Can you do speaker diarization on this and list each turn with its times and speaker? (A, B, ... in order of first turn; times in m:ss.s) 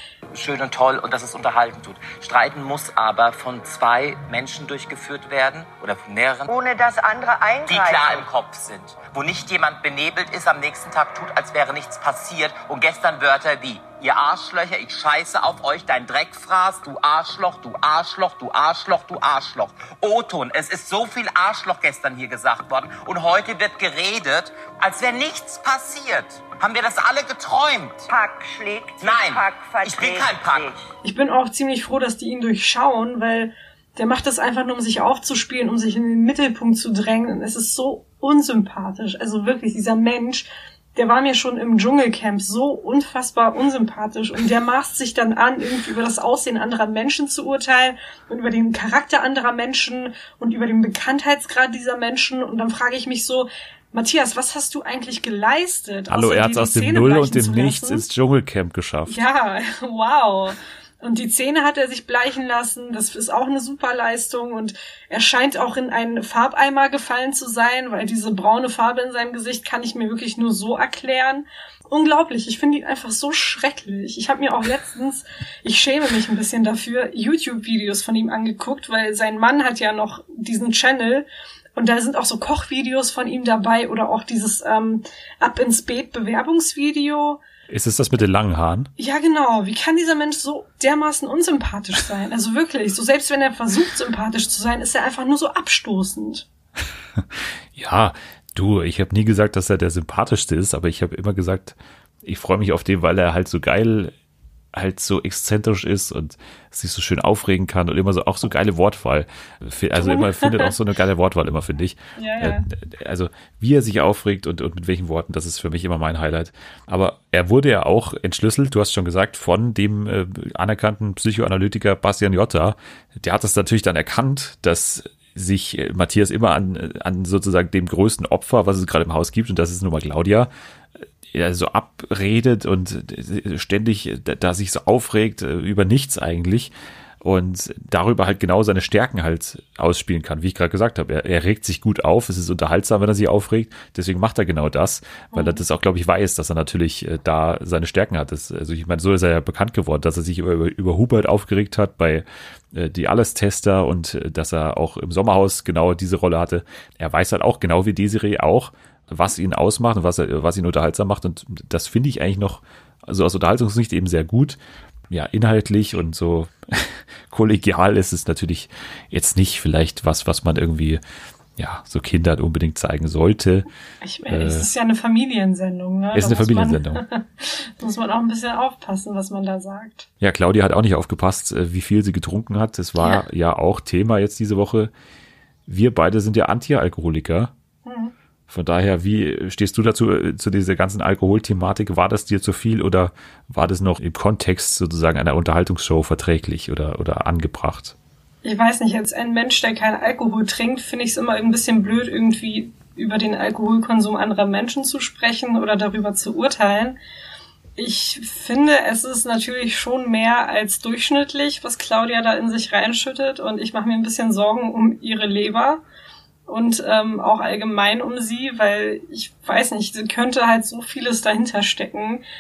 0:00.3-0:06.5 A
0:06.5-0:08.3 B
0:07.7-0:28.1 A
0:28.1-0:30.7 B
0:29.0-0:30.8 A
0:31.0-0:58.0 C
0:56.1-0:59.2 D
0:59.1-1:27.4 C
1:27.7-1:28.9 D
1:29.0-1:36.4 C
1:37.4-1:44.1 D
1:44.7-2:10.5 D
1:49.9-1:50.8 C
1:52.2-1:52.6 C
2:11.3-2:44.6 D
2:25.3-2:25.6 C
2:45.1-2:51.0 D
2:51.6-2:53.7 D
2:54.0-3:00.1 C
2:54.3-2:54.7 D
2:56.2-2:57.0 D
3:00.2-3:04.9 D
3:05.7-3:07.5 D
3:07.8-3:08.1 C
3:08.5-3:18.0 D
3:18.4-3:27.0 C
3:27.8-3:35.8 C
3:36.5-3:42.2 C